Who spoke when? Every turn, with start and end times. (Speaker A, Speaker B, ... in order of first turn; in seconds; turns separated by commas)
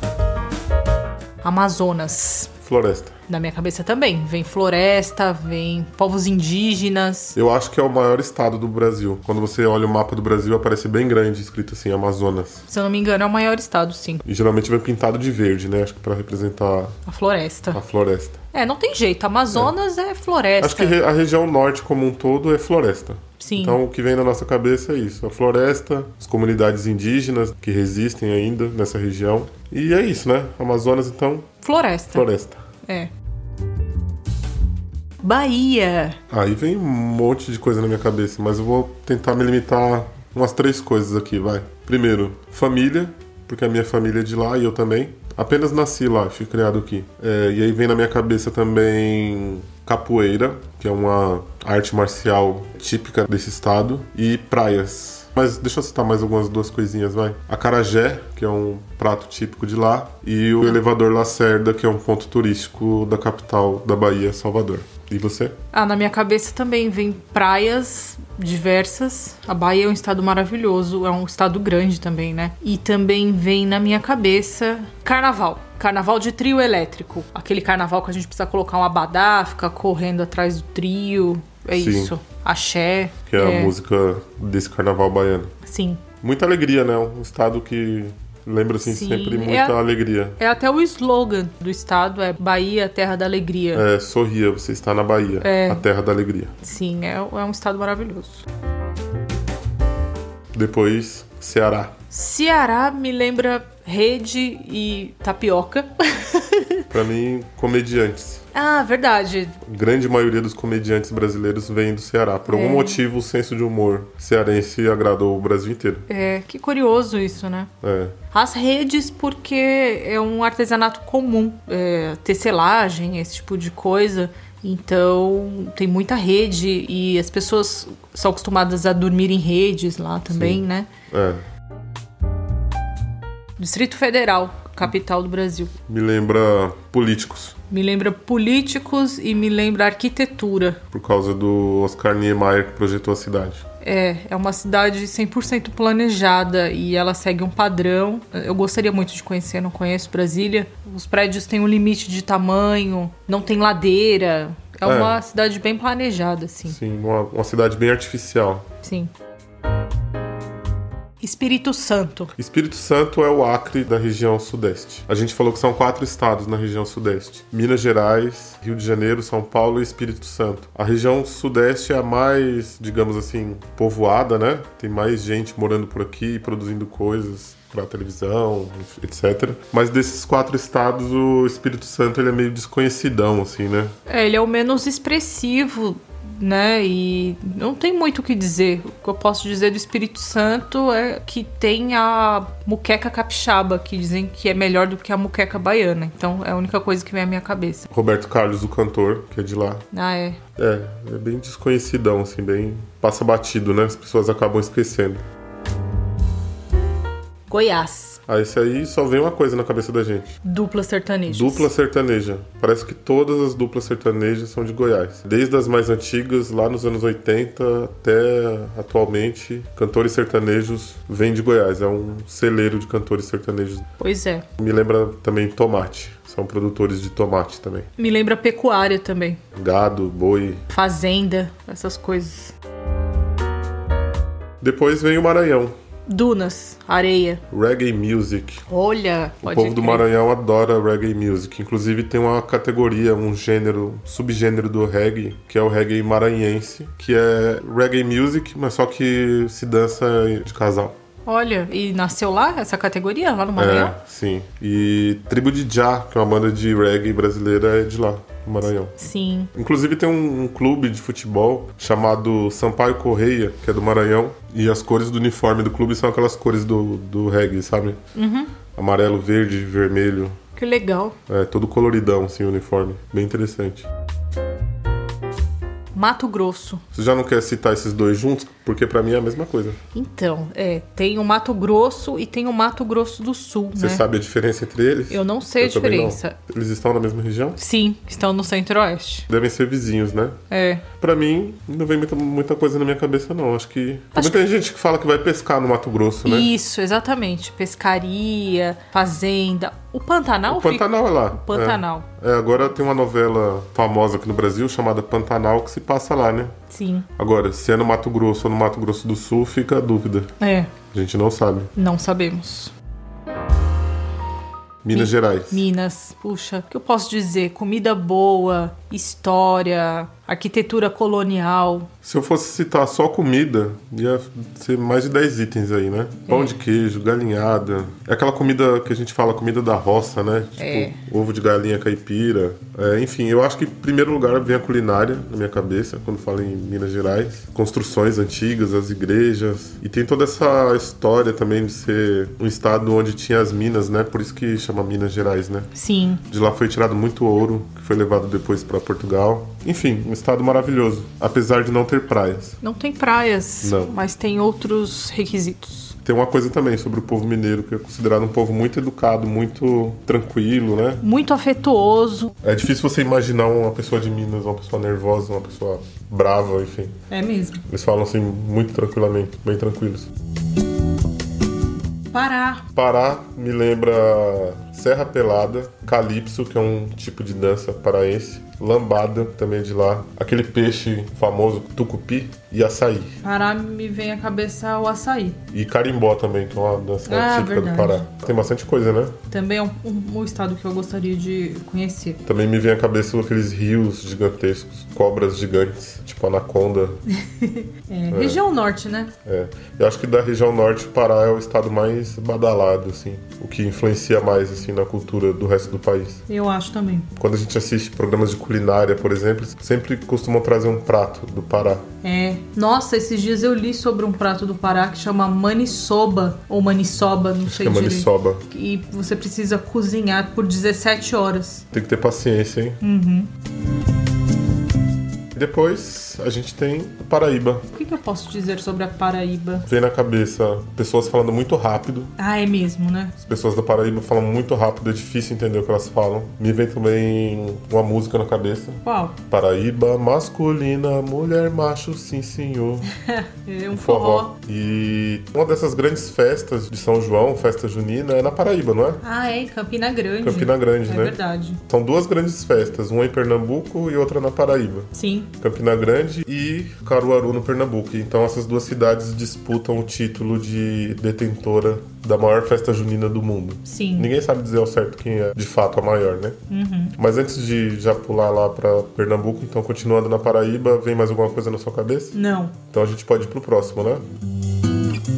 Speaker A: 1.4-2.5, Speaker B: 2.6-3.1, Speaker A: 3.3-7.4, Speaker B: 7.3-12.6, Speaker A: 12.7-14.2, Speaker B: 14.2-17.0, Speaker A: 17.1-17.8, Speaker B: 17.7-18.4, Speaker A: 18.5-21.0, Speaker B: 20.6-31.5, Speaker A: 23.4-23.8, Speaker A: 31.6-32.3, Speaker B: 32.1-32.6, Speaker A: 32.8-33.1, Speaker A: 35.2-36.2, Speaker B: 36.3-65.5, Speaker A: 65.7-83.8, Speaker B: 81.7-82.2, Speaker B: 83.3-85.5, Speaker A: 85.6-86.0, Speaker B: 86.2-90.4, Speaker A: 88.8-89.8, Speaker A: 90.4-93.9, Speaker B: 93.7-96.5, Speaker A: 95.4-95.8, Speaker A: 96.6-98.5, Speaker B: 100.5-101.9, Speaker A: 102.1-106.8, Speaker B: 106.9-108.4, Speaker A: 108.5-109.6, Speaker B: 109.7-116.1, Speaker A: 112.5-113.0, Speaker A: 116.1-117.7, Speaker B: 117.8-118.2, Speaker A: 118.3-130.9, Speaker B: 130.3-131.4, Speaker A: 133.6-135.7, Speaker B: 135.9-137.6, Speaker A: 137.7-140.8, Speaker B: 140.9-143.6, Speaker A: 143.8-156.8, Speaker B: 154.8-155.2, Speaker B: 156.7-158.7, Speaker A: 158.8-159.1, Speaker A: 161.2-162.3, Speaker B: 162.4-183.9, Speaker A: 184.1-197.8, Speaker B: 197.9-199.8, Speaker A: 199.9-200.4, Speaker B: 200.6-205.2, Speaker A: 207.5-208.2, Speaker B: 208.3-210.4, Speaker A: 210.4-211.7, Speaker B: 211.3-223.9, Speaker A: 224.0-224.5, Speaker B: 224.6-227.9, Speaker A: 228.0-229.4, Speaker B: 229.6-230.6, Speaker A: 230.7-232.5, Speaker B: 234.6-235.8, Speaker A: 236.1-237.4, Speaker B: 237.5-238.6, Speaker A: 238.7-240.1, Speaker B: 239.4-250.9, Speaker A: 251.2-254.0, Speaker B: 253.6-259.0, Speaker A: 259.0-259.5, Speaker B: 259.5-268.0, Speaker A: 268.1-268.5, Speaker B: 268.8-270.4, Speaker A: 270.6-271.2, Speaker B: 271.3-273.9, Speaker A: 275.9-276.8, Speaker B: 276.9-279.8, Speaker A: 279.9-284.1, Speaker B: 283.8-287.6, Speaker A: 285.1-286.4, Speaker A: 287.6-289.3, Speaker B: 289.3-290.4, Speaker A: 290.5-290.9, Speaker B: 291.0-296.5, Speaker A: 294.1-294.4, Speaker A: 296.2-302.1, Speaker B: 300.5-306.5, Speaker A: 306.7-307.1, Speaker B: 307.2-310.3, Speaker A: 310.4-310.7, Speaker B: 310.9-311.7, Speaker A: 311.8-312.7, Speaker B: 314.8-315.7, Speaker A: 314.9-321.9, Speaker B: 322.0-345.7, Speaker A: 326.3-326.6, Speaker A: 330.6-331.0, Speaker A: 345.7-346.2, Speaker B: 346.3-352.6, Speaker A: 352.6-356.0, Speaker B: 353.6-354.0, Speaker B: 356.0-361.0, Speaker A: 361.0-362.3, Speaker B: 362.4-367.0, Speaker A: 367.1-367.6, Speaker B: 367.7-370.1, Speaker A: 372.1-372.6, Speaker B: 372.7-383.1, Speaker A: 383.2-385.4, Speaker B: 385.5-389.2, Speaker A: 387.1-388.1, Speaker A: 389.3-392.2, Speaker B: 392.3-397.0, Speaker A: 397.2-399.1, Speaker B: 398.1-398.4, Speaker B: 399.2-406.2, Speaker A: 406.3-407.1, Speaker B: 407.2-411.9, Speaker A: 412.0-421.6, Speaker B: 417.4-418.4, Speaker B: 421.7-422.8, Speaker A: 422.8-423.3, Speaker B: 425.3-427.7, Speaker A: 427.7-429.7, Speaker B: 429.6-432.1, Speaker A: 432.2-433.1, Speaker B: 433.2-442.9, Speaker A: 438.8-439.2, Speaker A: 443.0-444.4, Speaker B: 443.7-449.0, Speaker A: 449.0-451.6, Speaker B: 450.2-466.4, Speaker A: 454.9-455.3, Speaker A: 463.6-464.1, Speaker A: 466.5-467.0, Speaker B: 467.0-472.2, Speaker A: 472.1-472.6, Speaker B: 472.7-474.0